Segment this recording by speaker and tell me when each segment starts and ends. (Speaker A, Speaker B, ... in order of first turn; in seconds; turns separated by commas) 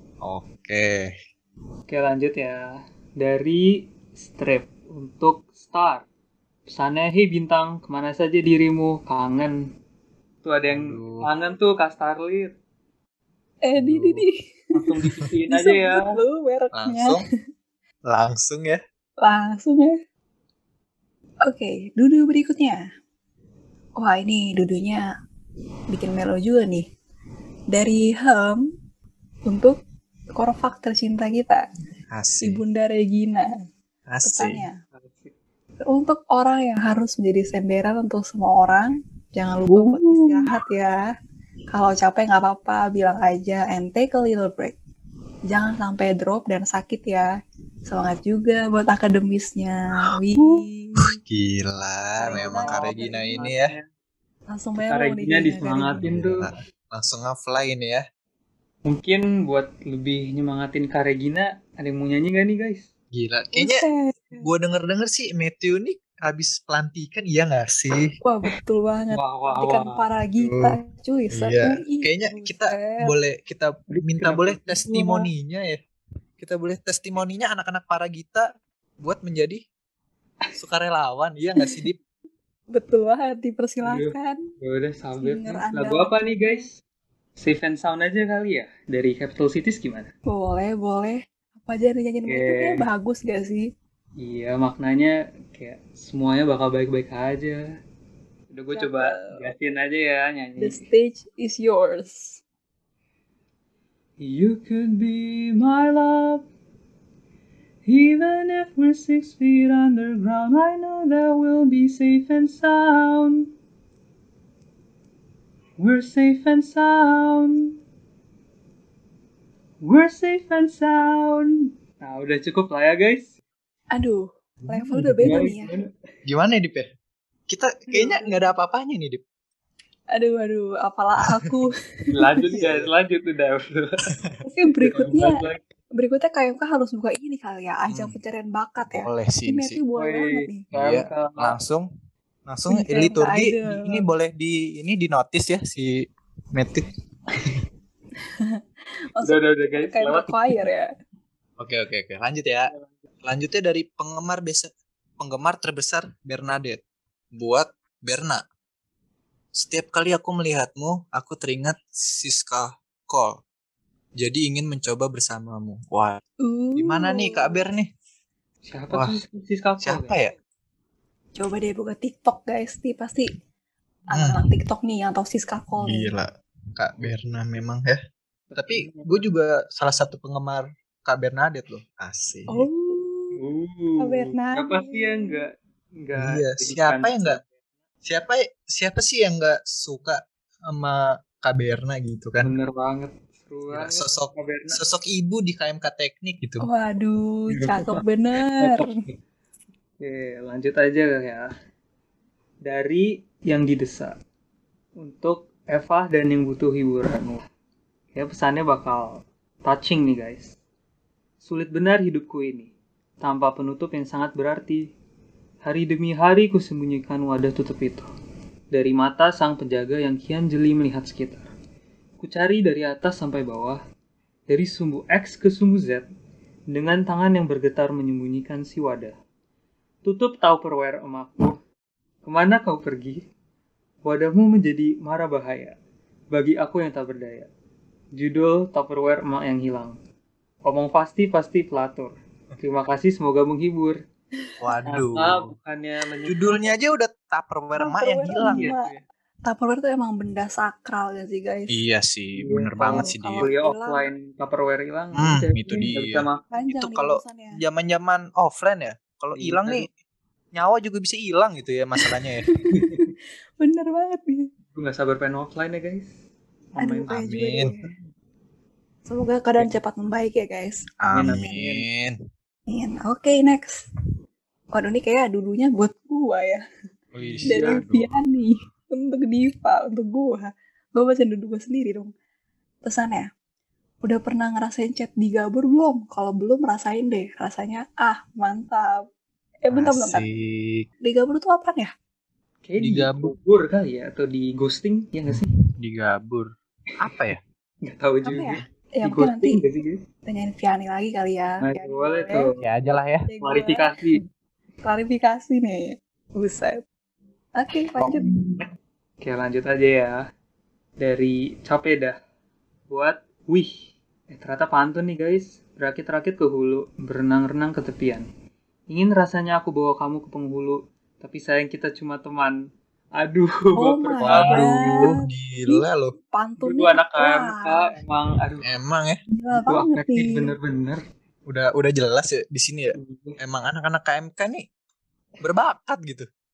Speaker A: 0.2-1.1, Speaker B: 1.9-6.0, Speaker B: 6.7-9.6, Speaker B: 10.4-12.5, Speaker A: 10.7-11.2, Speaker C: 13.6-14.3, Speaker A: 13.8-14.2, Speaker B: 14.7-16.1, Speaker C: 15.5-17.2, Speaker A: 16.7-17.2, Speaker A: 18.1-18.8, Speaker C: 19.2-19.9, Speaker C: 21.4-22.8, Speaker C: 24.0-25.0, Speaker C: 25.9-26.9, Speaker C: 27.7-28.7, Speaker C: 29.4-29.8, Speaker C: 30.3-31.6, Speaker A: 32.1-32.6, Speaker C: 32.4-33.5, Speaker A: 34.1-34.6, Speaker C: 34.2-34.7, Speaker B: 34.9-35.3, Speaker C: 35.8-41.0, Speaker B: 39.7-40.5, Speaker C: 41.7-44.8, Speaker C: 45.5-47.3, Speaker C: 47.9-51.1, Speaker A: 51.0-53.7, Speaker C: 52.2-53.5, Speaker B: 52.2-53.9, Speaker C: 54.5-56.0, Speaker B: 54.8-56.5, Speaker A: 56.0-58.0, Speaker B: 58.9-62.9, Speaker A: 63.1-63.8, Speaker C: 63.5-64.4, Speaker A: 64.4-68.1, Speaker C: 68.2-73.1, Speaker B: 69.1-70.0, Speaker A: 70.4-70.8, Speaker A: 71.3-75.8, Speaker B: 73.9-75.3, Speaker A: 76.4-78.5, Speaker A: 79.0-79.6, Speaker A: 80.5-82.0, Speaker C: 82.7-84.4, Speaker B: 83.8-86.8, Speaker C: 85.2-86.7, Speaker B: 87.4-90.1, Speaker C: 90.3-93.7, Speaker B: 92.3-92.8, Speaker B: 94.2-97.6, Speaker B: 98.5-100.8, Speaker C: 98.7-99.5, Speaker C: 100.6-102.4, Speaker B: 104.2-106.4, Speaker B: 107.8-113.5, Speaker B: 115.8-117.7, Speaker B: 119.8-123.3, Speaker C: 123.9-125.7, Speaker A: 124.6-125.4, Speaker B: 125.2-125.9, Speaker A: 126.2-126.9, Speaker A: 127.5-129.2, Speaker C: 127.9-128.3, Speaker C: 130.1-132.1, Speaker B: 132.1-134.1, Speaker A: 132.5-132.9, Speaker C: 134.4-135.4, Speaker B: 134.8-135.6, Speaker C: 135.9-140.7, Speaker A: 137.9-138.2, Speaker A: 138.9-139.8, Speaker B: 139.9-141.6, Speaker A: 140.7-141.9, Speaker A: 142.5-146.9, Speaker C: 142.7-144.0, Speaker C: 148.2-148.6, Speaker C: 149.1-150.9, Speaker B: 149.2-150.6, Speaker A: 151.6-152.7, Speaker B: 152.7-153.0, Speaker A: 153.2-156.8, Speaker A: 157.3-158.4, Speaker A: 159.5-163.4, Speaker A: 164.2-166.2, Speaker C: 166.4-167.6, Speaker A: 166.8-167.9, Speaker B: 168.7-170.2, Speaker A: 169.8-170.3, Speaker C: 171.4-173.3, Speaker C: 174.1-176.1, Speaker A: 174.1-174.4, Speaker A: 175.8-178.0, Speaker B: 176.9-177.4, Speaker B: 178.5-179.2, Speaker A: 178.6-182.7, Speaker C: 182.5-183.4, Speaker B: 183.3-187.5, Speaker C: 184.0-185.4, Speaker A: 186.2-187.4, Speaker A: 188.0-192.5, Speaker B: 192.4-194.8, Speaker A: 193.7-196.7, Speaker C: 196.6-198.9, Speaker B: 197.5-199.2, Speaker B: 200.0-201.5, Speaker B: 202.6-204.1, Speaker B: 205.0-207.4, Speaker B: 208.1-210.6, Speaker B: 211.4-214.9, Speaker B: 215.6-218.1, Speaker B: 218.7-221.5, Speaker B: 222.2-223.8, Speaker B: 224.5-226.1, Speaker B: 226.7-229.1, Speaker B: 230.0-231.6, Speaker B: 232.2-233.2, Speaker B: 234.0-235.8, Speaker B: 236.3-237.5, Speaker B: 238.1-239.9, Speaker B: 240.7-244.0, Speaker A: 244.6-245.5, Speaker B: 244.9-246.7, Speaker A: 246.3-248.7, Speaker C: 247.8-248.9, Speaker B: 248.4-249.0, Speaker C: 249.4-251.8, Speaker A: 251.7-253.5, Speaker B: 252.4-256.4, Speaker C: 252.9-254.1, Speaker A: 255.2-259.9, Speaker C: 256.5-257.6, Speaker B: 259.3-259.9, Speaker A: 260.5-262.5, Speaker C: 262.4-264.5, Speaker B: 262.7-263.1, Speaker B: 264.7-266.1, Speaker B: 266.7-267.9, Speaker C: 266.8-267.9, Speaker A: 267.1-267.7, Speaker C: 269.1-271.5, Speaker A: 271.0-272.2, Speaker B: 271.1-271.9, Speaker C: 272.7-273.9, Speaker C: 274.7-276.6, Speaker A: 277.1-278.1, Speaker B: 277.2-277.8, Speaker C: 277.5-282.1, Speaker C: 282.8-283.3, Speaker C: 284.0-289.0, Speaker C: 289.6-290.2, Speaker A: 289.7-290.9, Speaker C: 291.0-291.9, Speaker B: 292.6-295.5, Speaker A: 292.8-293.3, Speaker A: 295.3-297.4, Speaker B: 297.9-300.0, Speaker C: 298.2-299.6, Speaker C: 300.2-302.5, Speaker B: 301.6-302.7, Speaker A: 302.6-303.3, Speaker C: 303.3-304.2, Speaker B: 303.4-304.2, Speaker C: 304.8-306.8, Speaker C: 307.6-308.3, Speaker A: 308.0-308.6, Speaker B: 309.2-310.2, Speaker B: 311.0-312.2, Speaker B: 312.9-318.2, Speaker B: 318.9-322.6, Speaker B: 323.2-325.1, Speaker C: 323.8-327.9, Speaker A: 324.2-326.1, Speaker B: 326.6-328.7, Speaker A: 328.6-329.2, Speaker C: 329.3-330.5, Speaker B: 329.5-331.0, Speaker A: 331.5-334.6, Speaker B: 332.9-333.4, Speaker A: 335.4-336.3